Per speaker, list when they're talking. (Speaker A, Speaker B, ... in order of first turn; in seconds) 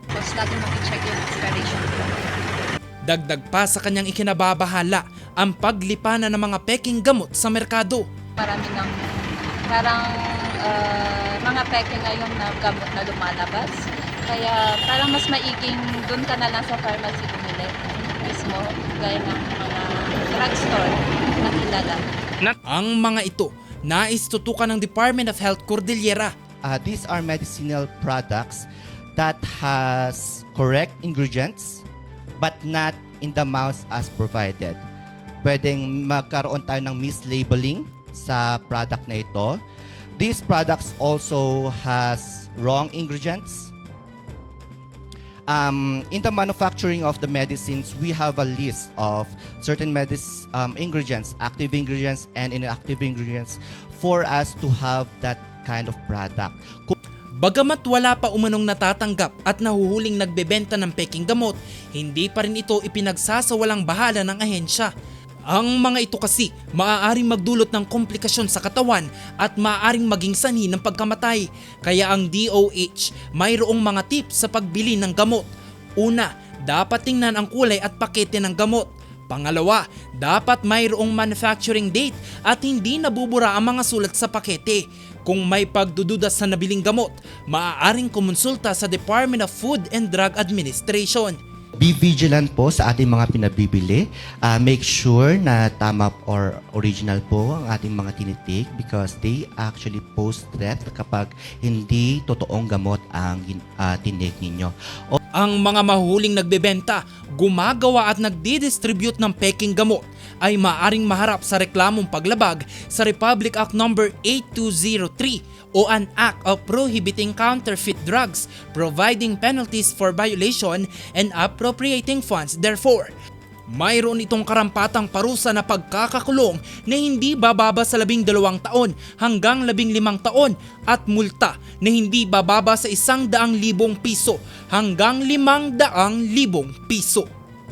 Speaker A: 0.1-2.3, 8.4-22.0
Speaker B: 3.0-8.1, 22.4-26.3, 57.4-64.9, 65.5-91.4, 105.3-123.1, 123.7-137.3
Speaker C: 26.6-31.8, 32.4-34.8, 35.4-39.6, 40.2-43.7, 45.5-56.9, 91.8-105.2